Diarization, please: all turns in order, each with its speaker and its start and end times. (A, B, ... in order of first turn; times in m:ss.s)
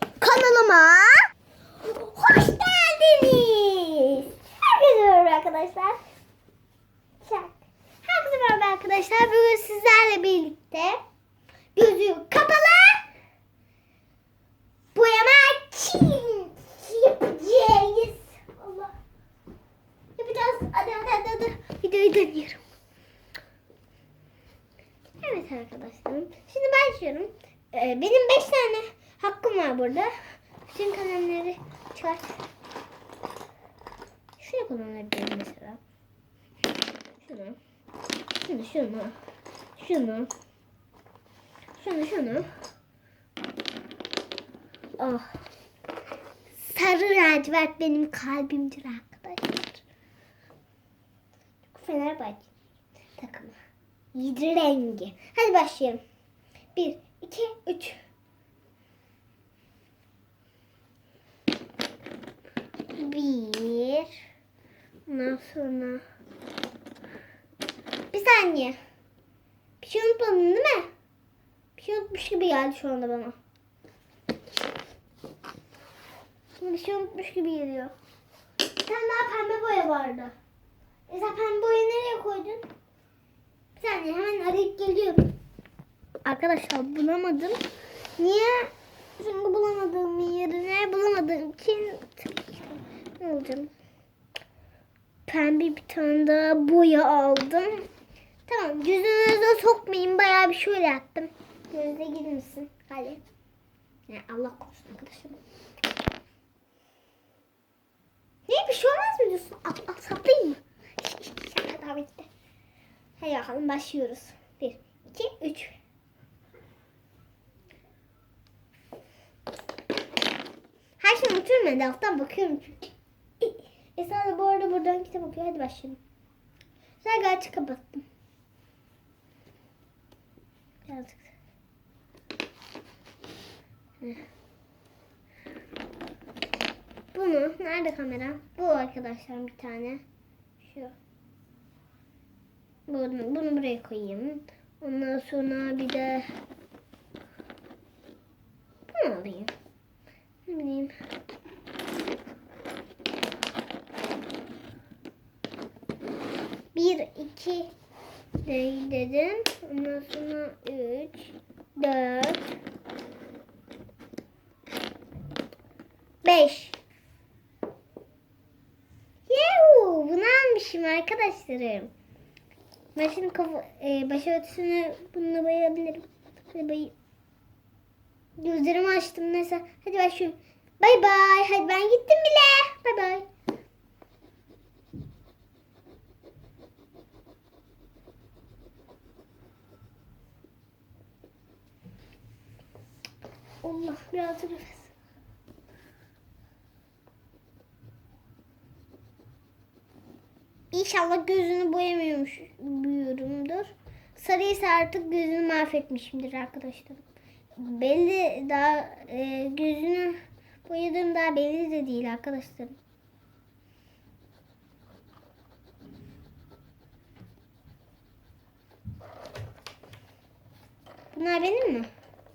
0:00.2-0:01.3 A
0:01.8-0:06.0 A
0:07.2-0:11.0 A
0:11.7-0:13.0 A
0:14.9-0:18.9 A
0:20.2-0:22.6 A
0:25.2-0:30.1 A
0:30.6-0:32.4 A
0:34.4-0:35.8 A
0:37.1-0:37.6 A
0:38.4-0:39.2 A
0:39.8-0:40.3 A
0:41.8-0:42.5 A
0:45.0-0:45.4 A
0:46.5-0:49.8 A
0:51.7-0:52.5 A
0:53.2-0:53.6 A
0:54.1-0:56.0 A
0:56.7-0:58.0 A
1:03.0-1:04.2 A
1:05.1-1:06.0 A
1:08.1-1:08.8 A
1:09.8-1:10.9 A
1:11.8-1:13.4 A
1:16.6-1:17.9 A
1:18.7-1:20.3 A
1:21.1-1:22.7 A
1:23.8-1:25.3 A
1:26.2-1:27.6 A
1:28.2-1:33.7 A
1:35.3-1:37.9 A
1:38.5-1:43.2 A
1:44.1-1:45.4 A
1:48.5-1:52.3 A
1:53.2-1:55.8 A
2:01.0-2:06.0 A
2:07.0-2:08.0 A
2:10.8-2:11.3 A
2:17.1-2:20.0 A
2:20.6-2:20.9 A
2:22.9-2:26.3 A
2:28.9-2:29.5 A
2:30.5-2:30.9 A
2:36.7-2:37.7 A
2:38.4-2:42.5 A
2:46.2-2:46.8 A
2:49.3-2:51.9 A
2:52.9-2:56.9 A
2:58.4-3:03.2 A
3:13.6-3:14.9 A
3:20.7-3:27.0 A
3:27.6-3:32.8 A
3:41.1-3:41.9 A